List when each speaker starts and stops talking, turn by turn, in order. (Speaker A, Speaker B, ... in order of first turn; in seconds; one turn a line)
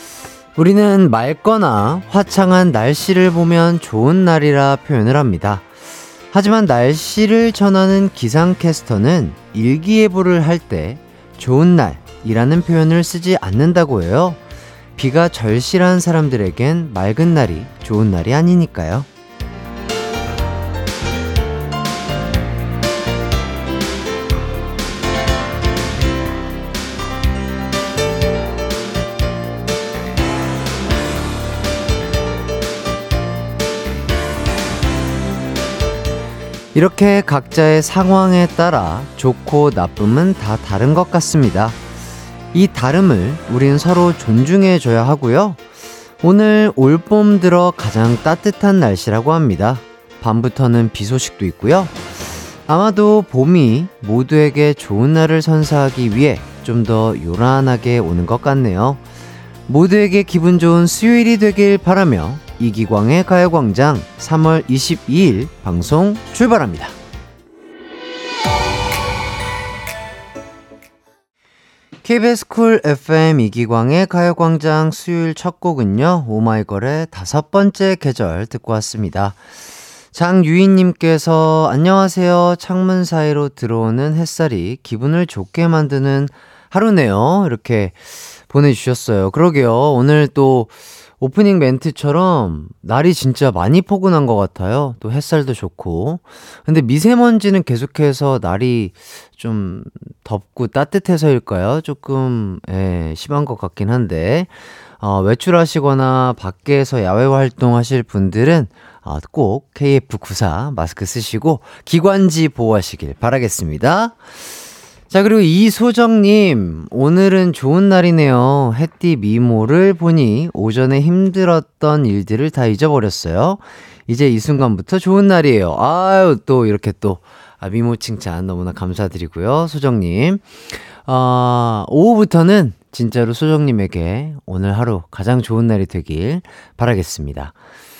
Speaker A: 0.6-5.7
Speaker A: 6.3-14.4
Speaker A: 15.0-19.1
Speaker A: 36.7-41.8
Speaker A: 42.5-45.6
Speaker A: 46.2-52.0
Speaker A: 52.7-59.0
Speaker A: 59.7-66.9
Speaker A: 72.0-79.4
Speaker A: 80.1-114.2
Speaker A: 115.1-137.5